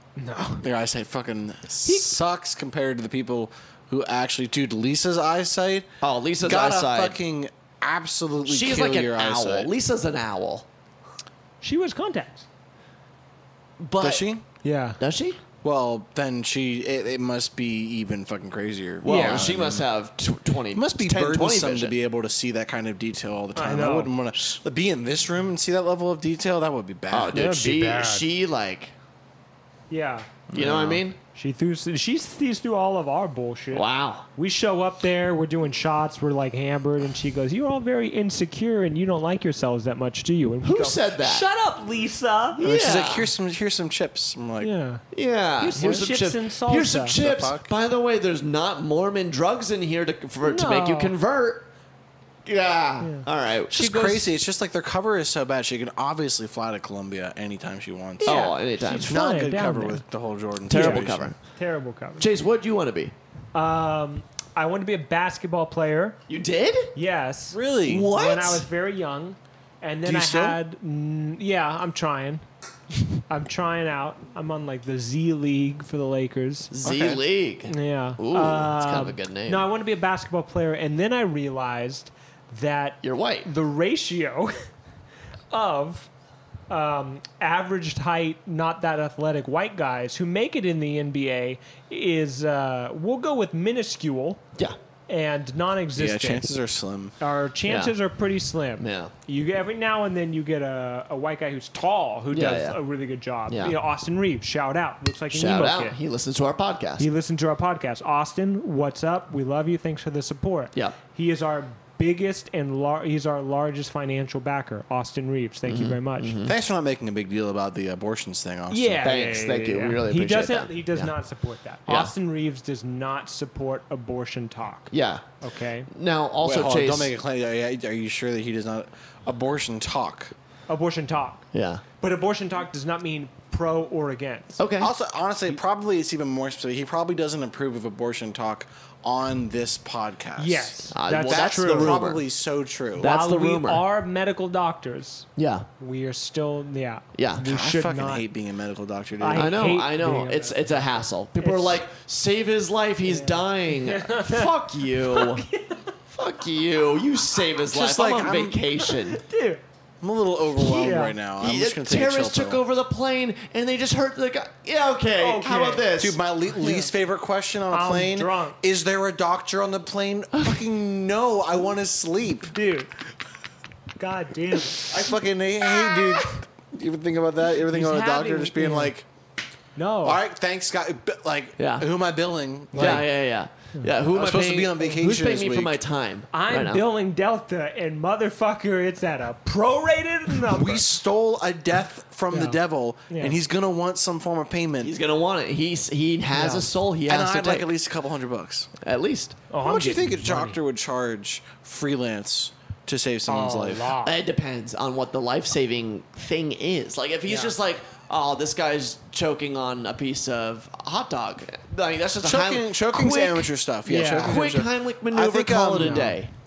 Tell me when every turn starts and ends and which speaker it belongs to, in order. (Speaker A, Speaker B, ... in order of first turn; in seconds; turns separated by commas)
Speaker A: 0.2-0.6, Speaker B: 0.6-5.9, Speaker A: 1.8-2.1, Speaker C: 6.0-7.2, Speaker B: 6.4-9.7, Speaker C: 8.4-10.7, Speaker A: 11.6-12.5, Speaker C: 13.8-14.2, Speaker B: 14.0-14.4, Speaker A: 14.6-15.0, Speaker C: 15.0-15.4, Speaker B: 15.6-19.8, Speaker C: 19.0-21.9, Speaker A: 19.0-19.5, Speaker B: 20.7-27.5, Speaker A: 23.6-24.1, Speaker C: 27.1-28.9, Speaker A: 27.3-28.3, Speaker A: 29.9-30.3, Speaker B: 30.5-31.0, Speaker C: 30.5-31.2, Speaker A: 31.3-42.6, Speaker C: 33.7-34.3, Speaker C: 40.6-41.5, Speaker C: 42.6-43.3, Speaker B: 42.6-44.7, Speaker A: 44.6-45.0, Speaker C: 45.1-51.7, Speaker A: 45.6-47.2, Speaker B: 45.8-46.1, Speaker B: 47.1-47.7, Speaker A: 50.4-51.1, Speaker C: 52.5-54.1, Speaker A: 53.0-53.3, Speaker B: 53.7-58.4, Speaker A: 53.8-54.2, Speaker A: 58.2-60.0, Speaker C: 58.2-59.1, Speaker B: 59.0-61.3, Speaker C: 60.7-61.4, Speaker A: 60.7-62.3, Speaker C: 62.2-63.1, Speaker A: 63.5-66.2, Speaker C: 66.3-66.9, Speaker A: 66.9-72.4, Speaker B: 67.5-68.1, Speaker C: 67.9-68.6, Speaker B: 70.0-70.6, Speaker A: 73.2-76.7, Speaker C: 76.7-79.7, Speaker B: 76.8-77.2, Speaker A: 77.7-84.7, Speaker C: 83.0-83.5, Speaker A: 85.5-86.1, Speaker A: 86.7-94.4, Speaker A: 95.1-96.4, Speaker B: 96.0-97.1, Speaker A: 97.2-106.0, Speaker C: 97.7-97.9, Speaker C: 98.8-99.1, Speaker C: 102.3-102.8, Speaker C: 103.5-103.8, Speaker C: 105.3-107.1, Speaker A: 107.0-116.4, Speaker C: 115.7-116.5, Speaker B: 116.4-119.1, Speaker A: 118.7-125.9, Speaker C: 119.0-121.1, Speaker C: 121.9-122.1, Speaker C: 124.9-125.2, Speaker C: 125.9-127.1, Speaker B: 126.4-130.3, Speaker A: 130.7-131.4, Speaker C: 131.5-131.8, Speaker A: 132.0-134.6, Speaker C: 134.6-134.9, Speaker B: 134.8-143.1, Speaker A: 140.4-142.0, Speaker C: 140.9-142.2, Speaker C: 143.0-143.8, Speaker A: 143.0-145.3, Speaker C: 145.4-145.7, Speaker A: 145.8-148.2, Speaker C: 147.1-147.4, Speaker B: 147.4-149.5, Speaker A: 149.2-150.7, Speaker C: 149.3-155.4, Speaker A: 151.4-151.8, Speaker A: 153.0-155.9, Speaker C: 156.1-159.2, Speaker B: 157.7-158.6, Speaker A: 158.8-159.6, Speaker B: 160.0-162.6, Speaker C: 160.6-166.2, Speaker A: 160.8-161.1, Speaker A: 165.2-165.9, Speaker B: 166.0-172.5, Speaker A: 166.5-166.9, Speaker A: 167.7-168.6, Speaker A: 172.5-172.9, Speaker A: 174.0-174.9, Speaker B: 174.8-179.1, Speaker A: 177.7-178.9, Speaker A: 179.8-180.2, Speaker B: 180.0-183.1, Speaker C: 181.6-181.9, Speaker A: 182.7-183.1, Speaker C: 182.7-186.8, Speaker B: 184.1-185.8, Speaker A: 186.3-190.9, Speaker B: 190.4-194.9, Speaker A: 192.3-193.4, Speaker C: 194.8-197.7, Speaker A: 196.3-196.7, Speaker B: 197.1-198.7, Speaker C: 198.8-199.4, Speaker A: 199.5-200.6, Speaker B: 199.6-203.9, Speaker A: 203.3-204.1, Speaker C: 204.0-213.5, Speaker A: 207.3-207.5, Speaker B: 212.2-216.2, Speaker A: 213.8-214.4, Speaker C: 214.2-216.3, Speaker A: 215.8-216.1